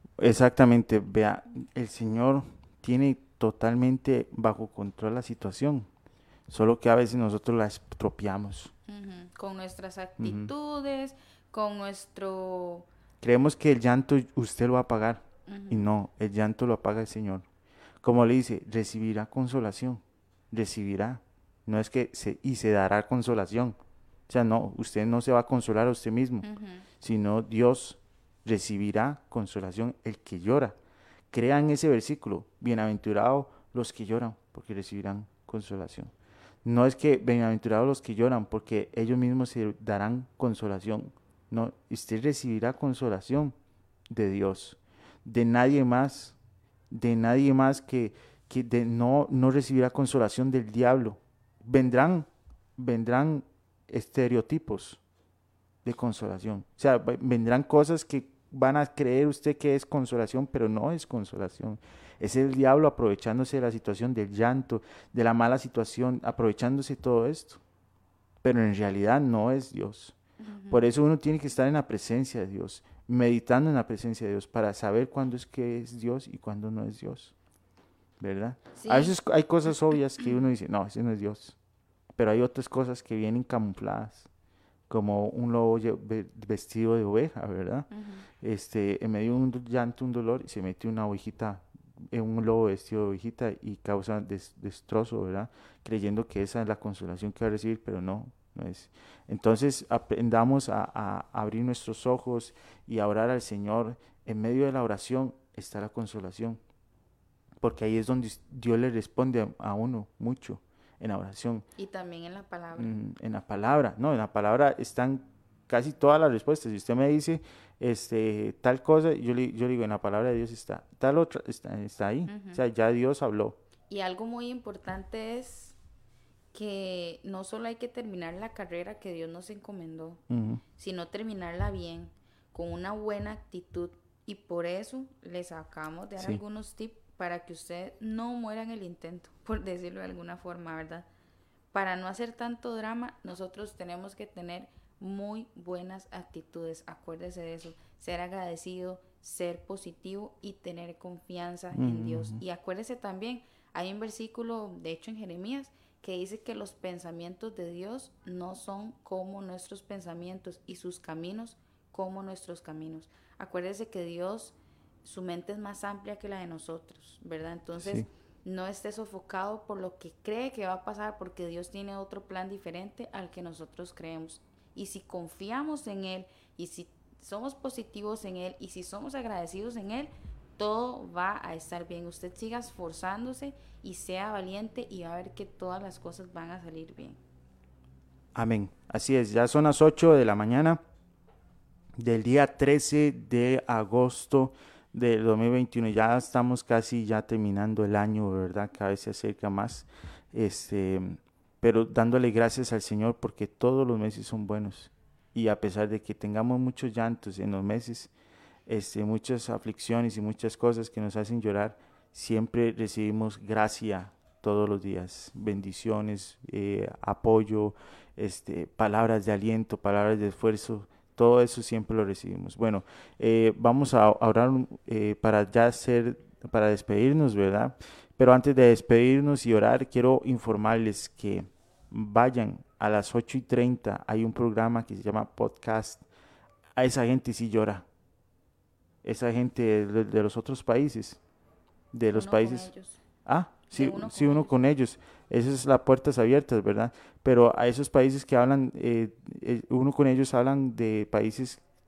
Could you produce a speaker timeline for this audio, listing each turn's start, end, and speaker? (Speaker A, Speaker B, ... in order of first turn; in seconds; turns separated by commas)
Speaker A: 0.2-5.9, Speaker A: 6.5-8.7, Speaker B: 8.9-12.9, Speaker A: 10.2-10.5, Speaker A: 13.2-17.5, Speaker B: 15.5-15.9, Speaker A: 18.0-23.8, Speaker A: 24.3-26.5, Speaker B: 26.4-26.9, Speaker A: 27.0-30.8, Speaker A: 31.3-36.1, Speaker A: 36.6-43.5, Speaker A: 44.1-46.4, Speaker A: 46.9-55.0, Speaker A: 55.8-67.6, Speaker A: 68.4-70.2, Speaker B: 70.4-70.9, Speaker A: 70.7-77.3, Speaker A: 78.2-81.6, Speaker B: 78.8-79.1, Speaker A: 82.2-84.3, Speaker A: 84.9-87.9, Speaker B: 87.9-88.3, Speaker A: 88.4-106.6, Speaker A: 107.6-111.7, Speaker B: 111.8-113.0, Speaker A: 112.8-123.6, Speaker B: 122.3-122.6, Speaker B: 123.9-125.8, Speaker B: 126.5-130.2, Speaker A: 130.3-130.6, Speaker B: 130.8-141.1, Speaker B: 141.7-187.2, Speaker A: 151.7-152.4, Speaker A: 167.8-168.1, Speaker A: 188.3-190.8, Speaker A: 192.0-208.1, Speaker A: 208.7-236.1, Speaker A: 236.8-237.9, Speaker A: 239.0-241.2, Speaker A: 241.9-242.7, Speaker B: 242.1-243.0, Speaker A: 243.2-251.6, Speaker B: 243.7-244.5